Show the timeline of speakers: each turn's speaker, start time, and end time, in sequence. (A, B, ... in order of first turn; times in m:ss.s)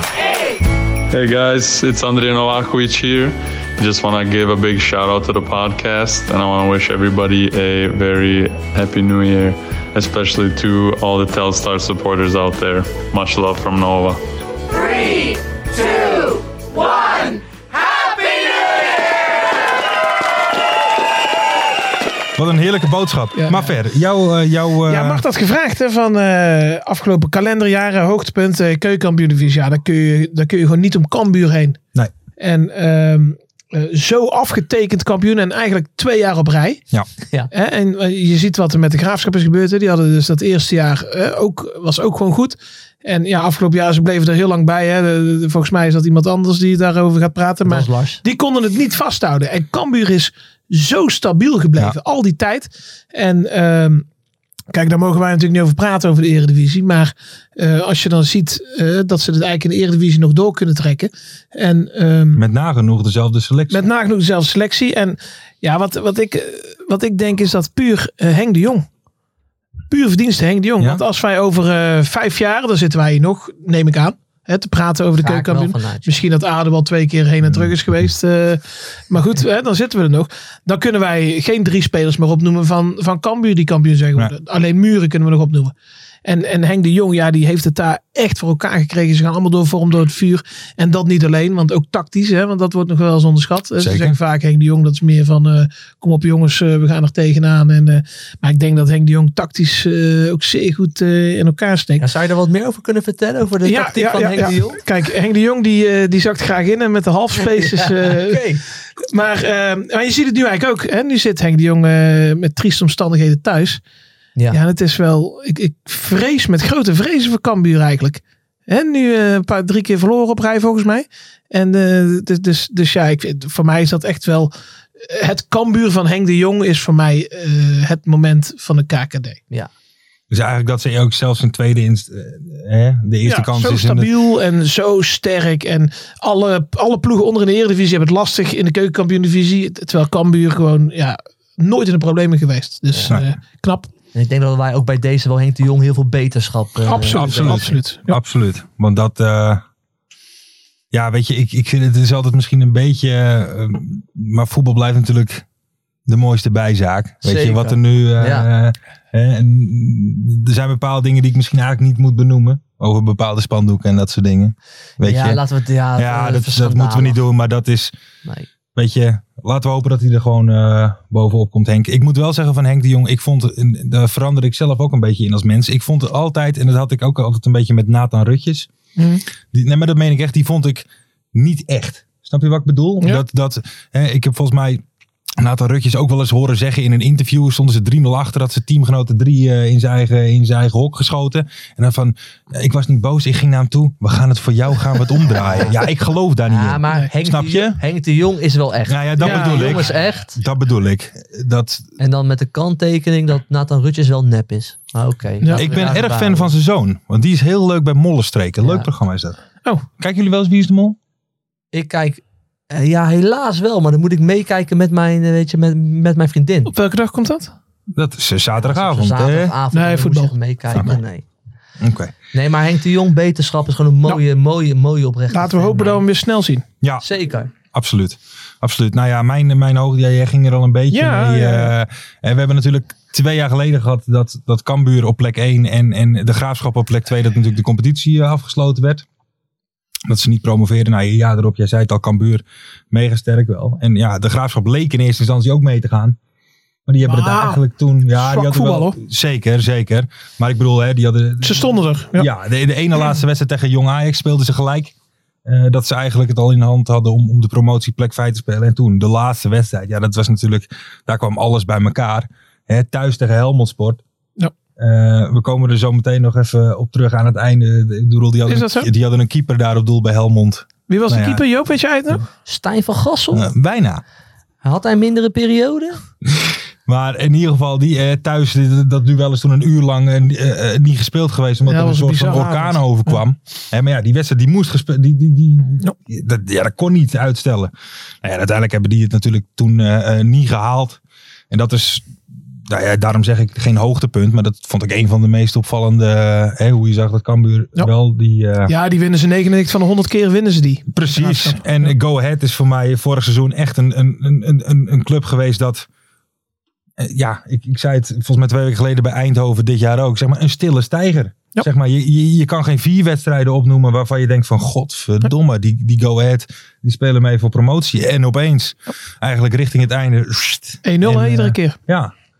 0:01.1-0:14.2 A
0:22.4-0:25.2 B
0:23.4-0:23.7 C
0:24.9-0:31.8 C
0:32.4-0:36.8 C
0:37.5-0:54.0 C
0:47.6-0:48.2 D
0:54.7-1:02.4 C
1:02.3-1:03.8 B
1:03.7-1:08.8 C
1:09.9-1:25.7 C
1:15.2-1:16.2 D
1:17.4-1:17.7 B
1:26.2-1:42.0 C
1:33.8-1:34.2 B
1:42.0-1:44.8 D
1:43.6-1:48.4 C
1:47.4-1:48.6 D
1:49.1-1:53.8 C
1:54.5-2:04.5 C
2:05.0-2:09.4 C
2:10.3-2:14.1 B
2:13.2-2:23.9 C
2:24.1-2:27.8 D
2:26.8-2:28.1 C
2:27.1-2:29.6 B
2:30.9-2:35.4 B
2:36.1-2:45.4 B
2:37.2-2:38.5 D
2:45.0-2:47.2 D
2:46.0-2:47.9 B
2:48.8-2:58.7 B
2:59.0-2:59.2 C
2:59.5-3:04.8 B
3:05.4-3:17.8 B
3:15.4-3:15.7 D
3:16.5-3:20.4 D
3:18.9-3:21.9 B
3:19.2-3:19.9 C
3:22.0-3:26.5 D
3:25.4-3:25.7 C
3:25.5-3:29.4 B
3:28.6-3:28.9 D
3:30.0-3:31.0 B
3:31.7-3:36.7 D
3:36.7-3:37.5 C
3:37.9-3:39.5 B
3:38.6-3:41.2 D
3:39.7-3:40.3 C
3:41.8-3:42.1 B
3:42.3-3:46.0 D
3:45.3-3:46.6 C
3:47.0-3:47.5 D
3:47.7-3:59.0 B
3:50.9-3:51.7 C
4:00.1-4:06.2 B
4:06.9-4:14.9 B
4:07.0-4:07.6 C
4:08.1-4:09.0 C
4:11.4-4:12.3 C
4:15.4-4:24.0 B
4:24.8-4:31.4 B
4:28.5-4:28.9 C
4:30.9-4:32.2 C
4:32.4-4:33.5 D
4:33.3-4:34.0 B
4:34.6-4:36.0 D
4:36.3-4:47.7 B
4:41.6-4:43.2 C
4:48.2-4:52.1 B
4:52.7-4:58.7 B
4:58.6-5:01.9 C
5:00.9-5:05.9 B
5:07.0-5:22.1 B
5:20.8-5:21.8 C